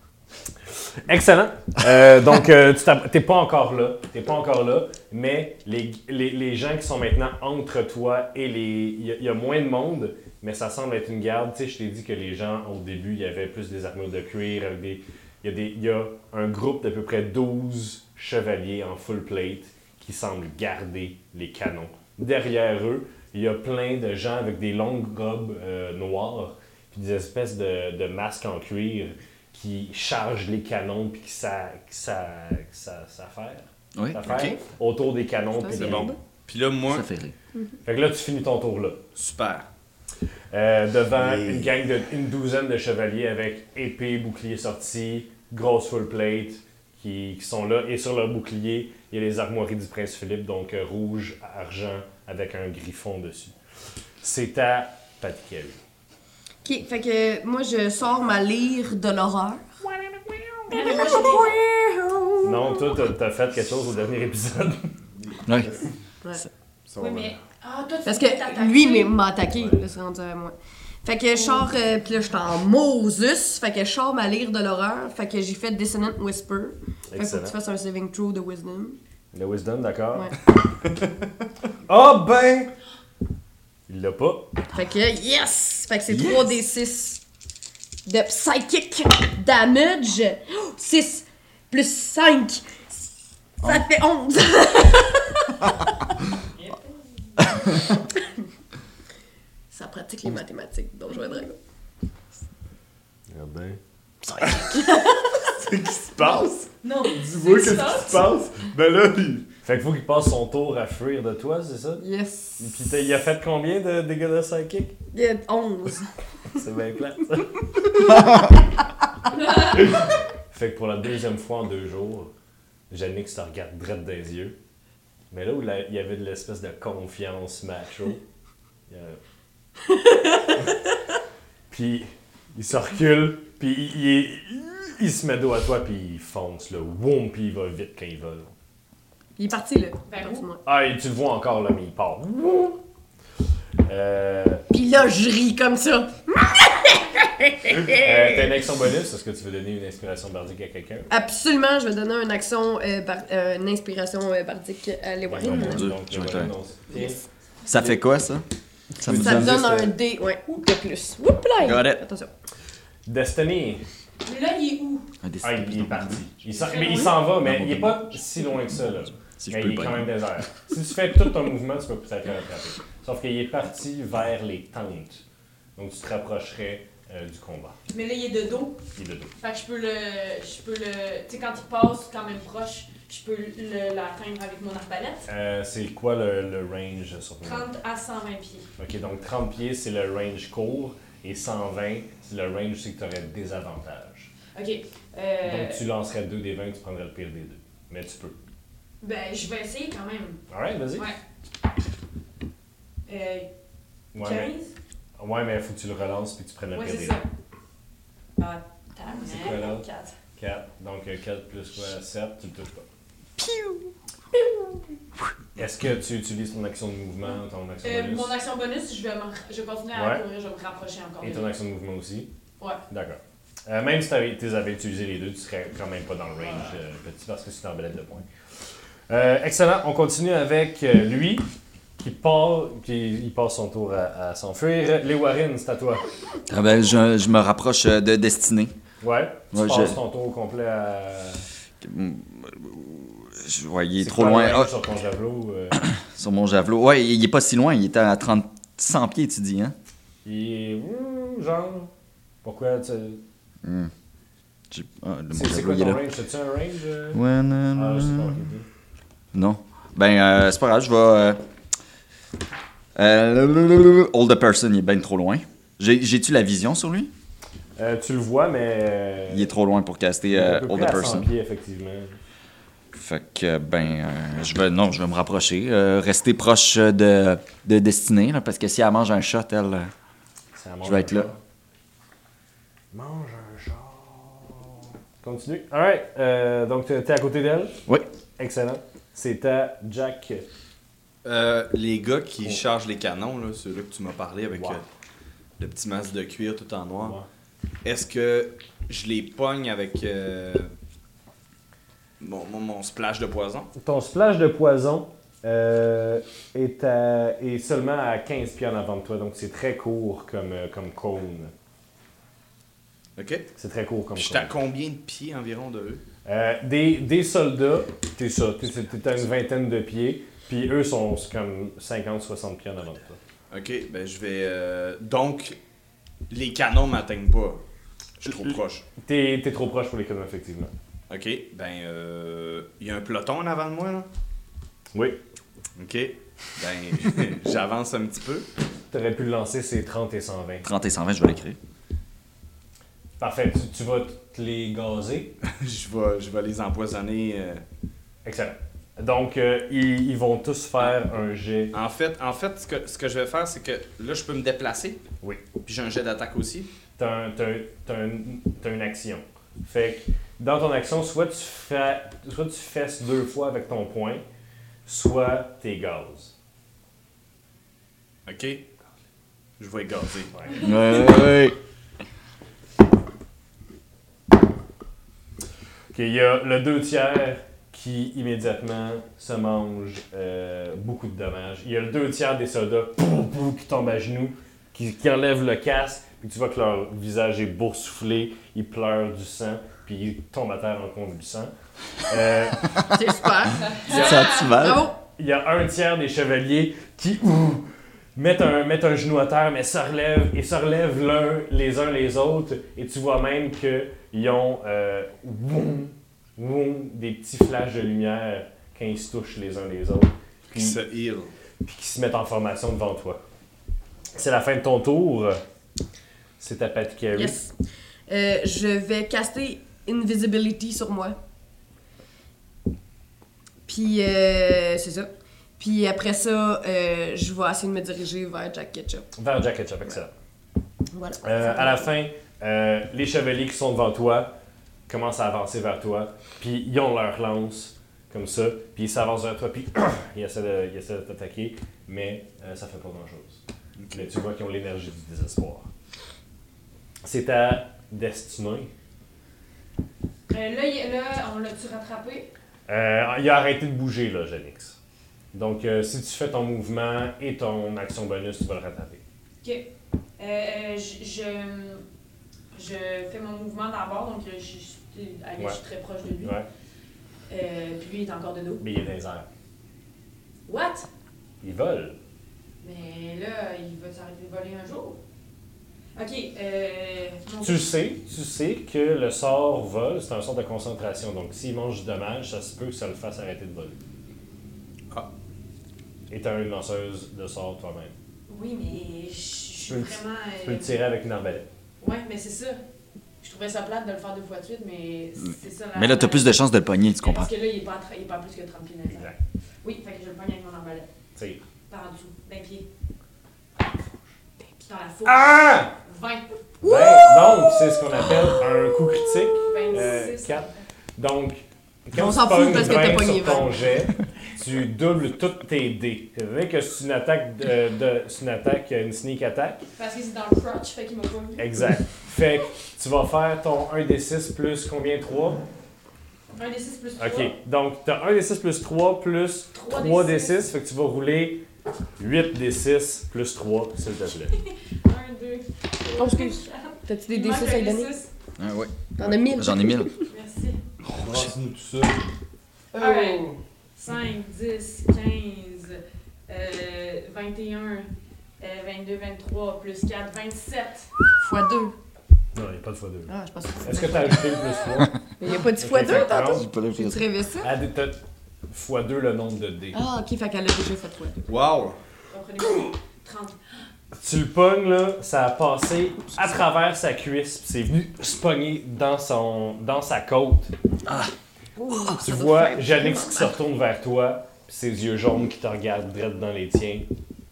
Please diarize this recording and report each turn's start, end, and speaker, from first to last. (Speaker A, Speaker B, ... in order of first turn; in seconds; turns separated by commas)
Speaker A: 1.0-36.1, Speaker B: 34.0-34.5, Speaker C: 34.3-34.6, Speaker D: 35.6-36.2, Speaker C: 35.7-37.1, Speaker B: 36.9-37.3, Speaker A: 37.8-39.1, Speaker C: 39.1-39.7, Speaker A: 40.5-53.6, Speaker C: 41.2-41.7, Speaker A: 54.2-55.8, Speaker D: 56.6-59.8, Speaker E: 60.7-61.6, Speaker D: 60.7-62.9, Speaker A: 62.4-65.0, Speaker C: 66.9-67.3, Speaker E: 67.0-69.2, Speaker D: 68.0-79.0, Speaker E: 71.3-71.7, Speaker A: 77.1-77.5, Speaker A: 79.3-80.3, Speaker A: 81.9-82.7, Speaker A: 83.9-84.5, Speaker D: 84.7-87.2, Speaker B: 86.1-86.4, Speaker D: 88.1-92.7, Speaker D: 93.6-95.7, Speaker E: 96.6-97.0, Speaker D: 99.7-101.6, Speaker A: 103.3-103.8, Speaker C: 104.4-104.8, Speaker D: 104.6-105.4, Speaker C: 105.5-109.5, Speaker E: 106.8-108.3, Speaker A: 109.6-112.0, Speaker D: 112.0-112.7, Speaker A: 112.6-114.9, Speaker D: 115.1-116.1, Speaker A: 116.6-117.7, Speaker E: 119.3-119.8, Speaker A: 119.6-122.3, Speaker A: 122.9-124.6, Speaker A: 125.3-128.2, Speaker A: 128.9-129.2, Speaker D: 129.9-130.7, Speaker A: 131.7-138.5, Speaker D: 139.4-140.6, Speaker E: 140.1-140.5, Speaker A: 140.6-142.8, Speaker A: 143.8-144.6, Speaker D: 144.7-148.5, Speaker A: 147.9-151.1, Speaker D: 151.1-155.9, Speaker A: 155.3-157.2, Speaker B: 155.4-156.5, Speaker B: 157.7-158.4, Speaker B: 159.0-159.9, Speaker A: 159.1-159.8, Speaker D: 159.1-162.3, Speaker B: 161.6-162.0, Speaker A: 163.1-163.8, Speaker E: 164.2-165.1, Speaker B: 165.2-166.2, Speaker A: 165.4-175.2, Speaker E: 166.6-167.2, Speaker B: 167.4-168.2, Speaker B: 169.2-170.1, Speaker A: 175.8-177.8, Speaker E: 177.9-178.8, Speaker A: 179.0-179.3, Speaker E: 179.4-185.2, Speaker A: 185.3-187.7, Speaker E: 187.4-188.7, Speaker A: 188.8-194.3, Speaker E: 194.6-195.8, Speaker A: 195.4-198.4, Speaker E: 199.0-200.4, Speaker A: 200.5-201.1, Speaker E: 203.1-203.5, Speaker A: 204.1-204.5, Speaker E: 204.2-204.7, Speaker A: 205.2-207.2, Speaker E: 206.7-207.3, Speaker E: 208.4-210.2, Speaker A: 209.2-209.9, Speaker A: 210.4-212.9, Speaker A: 215.6-218.3, Speaker E: 217.8-221.5, Speaker A: 219.9-220.2, Speaker A: 221.2-222.3, Speaker A: 222.9-228.3, Speaker A: 229.1-231.4, Speaker A: 232.0-236.0, Speaker B: 236.5-238.8, Speaker A: 239.0-241.4, Speaker B: 239.5-240.0, Speaker B: 241.8-244.7, Speaker A: 244.0-245.8, Speaker B: 245.8-249.8, Speaker A: 250.2-251.9, Speaker A: 252.4-253.2, Speaker B: 253.6-253.9, Speaker B: 254.7-256.0, Speaker A: 255.3-257.2, Speaker B: 257.1-258.4, Speaker A: 257.7-258.7, Speaker B: 259.3-261.4, Speaker B: 262.9-267.1, Speaker A: 267.8-269.5, Speaker B: 269.3-271.3, Speaker A: 270.3-272.2, Speaker B: 272.9-279.9, Speaker A: 280.6-281.4, Speaker B: 280.8-281.3, Speaker A: 282.9-287.8, Speaker A: 288.4-290.5, Speaker C: 291.2-294.8, Speaker A: 294.5-294.8, Speaker C: 295.6-297.2, Speaker A: 297.0-297.3, Speaker C: 297.8-300.7, Speaker C: 302.2-303.7, Speaker A: 303.8-311.5, Speaker C: 313.2-313.5, Speaker A: 313.6-314.5, Speaker C: 314.2-316.0, Speaker A: 316.3-323.2, Speaker C: 323.5-325.6, Speaker C: 326.3-327.6, Speaker C: 328.2-328.8, Speaker A: 328.3-330.7, Speaker C: 331.1-334.1, Speaker A: 334.9-335.2, Speaker C: 335.8-338.5, Speaker A: 338.9-340.7, Speaker B: 340.6-341.6, Speaker A: 343.2-345.4, Speaker C: 345.4-347.6, Speaker A: 348.2-351.8, Speaker C: 351.7-355.0, Speaker C: 355.6-356.7, Speaker A: 357.0-364.2, Speaker A: 364.9-366.3, Speaker C: 368.3-368.6, Speaker C: 369.6-370.4, Speaker B: 370.6-371.6, Speaker A: 375.9-392.8, Speaker D: 392.9-395.0, Speaker E: 393.6-394.5, Speaker B: 393.7-394.9, Speaker A: 395.0-410.8, Speaker C: 410.5-411.3, Speaker A: 411.6-413.2, Speaker A: 414.1-415.4, Speaker A: 416.4-417.4, Speaker D: 417.1-417.6, Speaker D: 418.1-421.2, Speaker D: 423.7-429.1, Speaker A: 429.2-430.1, Speaker D: 430.9-431.9, Speaker A: 431.2-434.4, Speaker A: 434.9-443.4, Speaker C: 443.8-444.1, Speaker A: 443.9-445.7, Speaker A: 447.0-448.7, Speaker E: 450.3-452.3, Speaker A: 452.7-454.8, Speaker A: 455.3-459.0, Speaker E: 459.4-461.8, Speaker E: 462.5-466.4, Speaker A: 466.1-466.5, Speaker E: 467.3-468.6, Speaker A: 468.6-469.3, Speaker E: 470.5-470.9, Speaker A: 471.4-472.0, Speaker E: 472.6-475.0, Speaker E: 476.0-477.7, Speaker A: 477.4-483.8, Speaker A: 486.1-487.9, Speaker E: 488.3-490.8, Speaker A: 489.7-491.5, Speaker E: 491.8-492.6, Speaker E: 493.2-496.4, Speaker B: 495.7-497.3, Speaker E: 497.0-499.1, Speaker A: 498.9-499.2, Speaker E: 499.6-500.9, Speaker A: 501.1-501.4, Speaker E: 501.7-502.7, Speaker E: 504.6-506.2, Speaker A: 505.1-505.8, Speaker D: 506.6-508.1, Speaker A: 506.6-519.6, Speaker E: 509.5-510.6, Speaker D: 511.9-513.6, Speaker E: 519.8-521.5, Speaker A: 521.4-525.4, Speaker E: 526.3-527.3, Speaker A: 527.0-531.4, Speaker E: 529.5-530.4, Speaker A: 532.0-534.4, Speaker E: 534.3-538.1, Speaker D: 536.0-537.9, Speaker B: 538.4-539.9, Speaker D: 539.0-540.1, Speaker E: 540.1-540.6, Speaker C: 540.8-542.0, Speaker C: 542.7-543.4, Speaker E: 542.8-550.9, Speaker D: 551.2-551.8, Speaker A: 552.3-556.5, Speaker D: 553.1-554.4, Speaker D: 555.2-557.5, Speaker B: 555.8-557.1, Speaker A: 557.4-559.8, Speaker D: 559.7-561.2, Speaker C: 561.3-561.8, Speaker E: 562.1-563.5, Speaker A: 563.9-570.5, Speaker D: 571.6-573.4, Speaker A: 572.0-576.9